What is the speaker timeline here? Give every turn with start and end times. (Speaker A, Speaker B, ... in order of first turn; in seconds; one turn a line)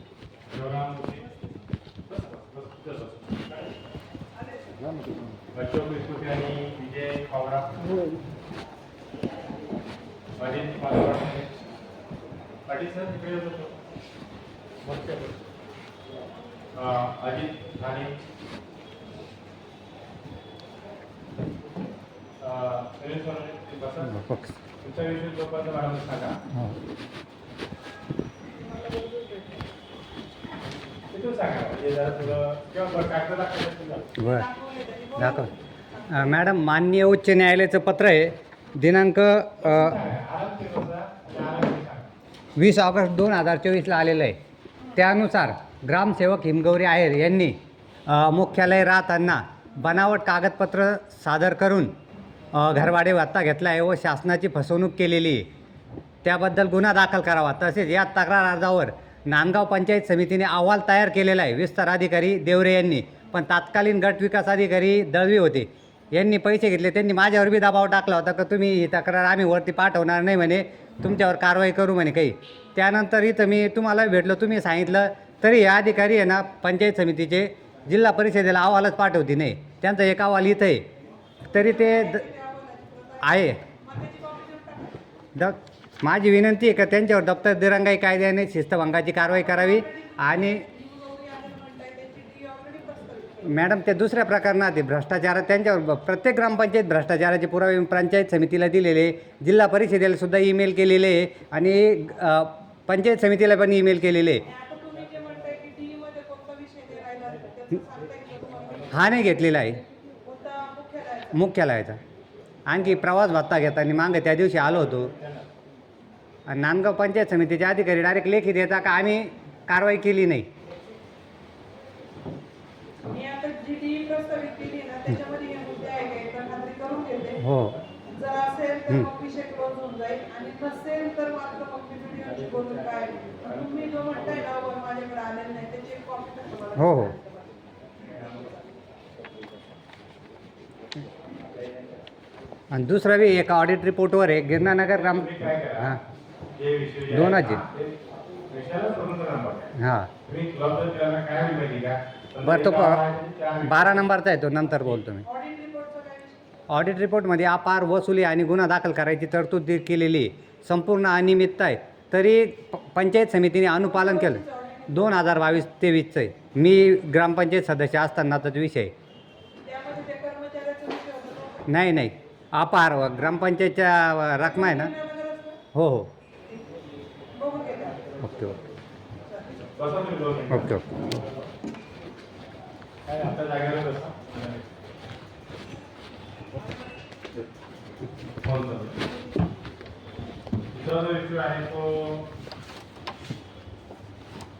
Speaker A: 0.5-1.3
Speaker A: 2.1-3.5
Speaker A: 5.5-8.0
Speaker A: 10.4-11.5
Speaker A: 12.7-13.7
Speaker A: 14.8-15.3
Speaker A: 16.7-18.1
Speaker A: 22.4-24.1
Speaker B: 24.1-24.6
Speaker A: 24.8-26.4
Speaker B: 26.5-26.8
Speaker A: 31.1-34.1
Speaker B: 34.2-34.5
Speaker C: 34.2-36.2
Speaker B: 35.2-35.5
Speaker B: 36.1-40.0
Speaker A: 39.6-42.1
Speaker B: 42.5-44.4
Speaker B: 44.9-51.9
Speaker B: 52.5-55.5
Speaker B: 56.2-80.8
Speaker B: 81.5-82.2
Speaker C: 81.5-85.0
Speaker B: 83.2-83.6
Speaker B: 85.3-90.6
Speaker C: 89.4-93.5
Speaker B: 93.4-104.4
Speaker C: 104.4-109.3
Speaker B: 108.9-109.8
Speaker C: 110.1-111.4
Speaker B: 111.3-112.0
Speaker B: 112.7-115.1
Speaker B: 116.5-120.5
Speaker C: 123.0-127.4
Speaker B: 127.4-127.8
Speaker C: 128.1-137.5
Speaker B: 136.8-137.1
Speaker B: 142.7-146.0
Speaker A: 145.0-146.0
Speaker A: 146.5-147.9
Speaker B: 147.1-147.6
Speaker A: 148.5-149.7
Speaker B: 149.8-150.1
Speaker A: 150.2-154.1
Speaker B: 152.4-153.0
Speaker B: 153.6-155.2
Speaker C: 155.2-156.4
Speaker B: 156.7-168.9
Speaker C: 163.8-165.0
Speaker C: 169.6-171.7
Speaker B: 171.7-174.9
Speaker C: 174.4-175.6
Speaker B: 175.7-176.1
Speaker C: 177.3-178.2
Speaker B: 178.2-178.6
Speaker A: 179.7-181.2
Speaker B: 180.5-180.8
Speaker A: 183.1-184.6
Speaker A: 188.4-189.0
Speaker A: 190.7-192.3